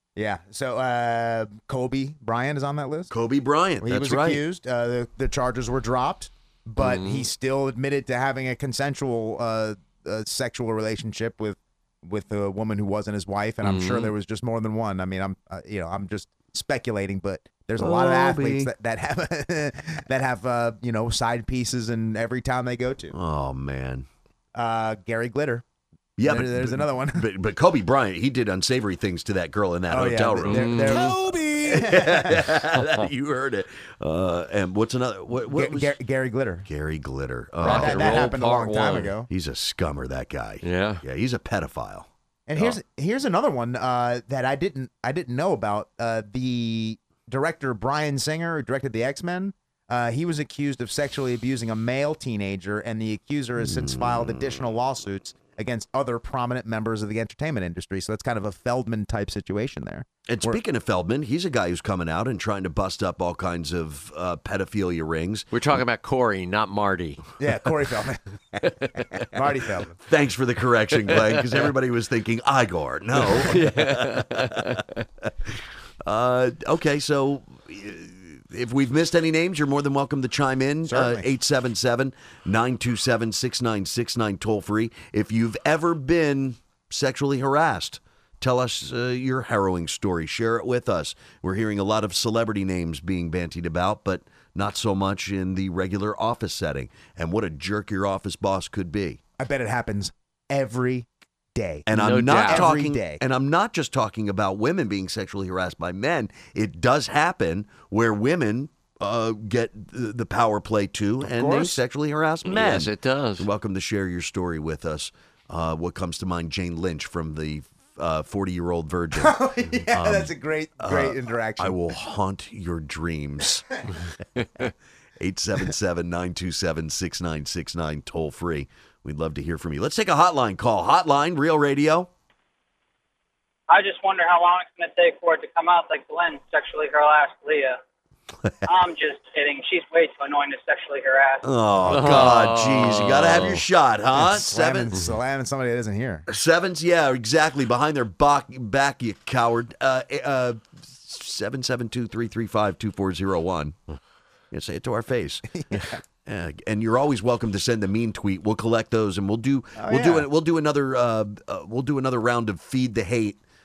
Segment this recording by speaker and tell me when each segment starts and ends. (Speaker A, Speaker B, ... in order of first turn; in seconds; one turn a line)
Speaker A: 0.1-3.1
Speaker B: 3.1-4.4
Speaker A: 3.8-23.1
Speaker C: 6.8-7.3
Speaker C: 13.6-14.1
Speaker B: 17.8-18.7
Speaker B: 23.1-24.1
Speaker A: 24.5-25.6
Speaker B: 26.2-31.1
Speaker A: 26.2-27.2
Speaker A: 29.9-32.4
Speaker C: 30.4-31.1
Speaker B: 31.6-35.9
Speaker C: 32.8-33.0
Speaker A: 35.5-36.6
Speaker B: 36.6-38.3
Speaker A: 37.6-39.3
Speaker C: 37.6-39.1
Speaker B: 39.3-42.7
Speaker C: 40.6-41.0
Speaker A: 42.5-60.6
Speaker B: 53.6-54.6
Speaker B: 60.3-65.5
Speaker C: 65.5-67.2
Speaker A: 67.4-68.2
Speaker C: 68.6-68.9
Speaker A: 69.1-70.0
Speaker B: 70.1-74.8
Speaker C: 71.1-71.4
Speaker C: 73.2-75.0
Speaker B: 76.0-99.2
Speaker A: 80.9-81.2
Speaker A: 99.4-101.9
Speaker B: 101.9-123.8
Speaker C: 101.9-102.7
Speaker A: 102.5-103.2
Speaker A: 111.2-111.8
Speaker C: 112.4-113.5
Speaker A: 119.1-121.8
Speaker C: 124.4-124.7
Speaker B: 125.2-132.1
Speaker D: 133.7-137.8
Speaker D: 138.7-141.4
Speaker B: 141.4-144.9
Speaker C: 141.9-143.6
Speaker A: 144.1-146.2
Speaker B: 146.3-153.8
Speaker B: 154.5-155.5
Speaker A: 155.5-156.0
Speaker B: 156.2-163.4
Speaker A: 159.8-160.3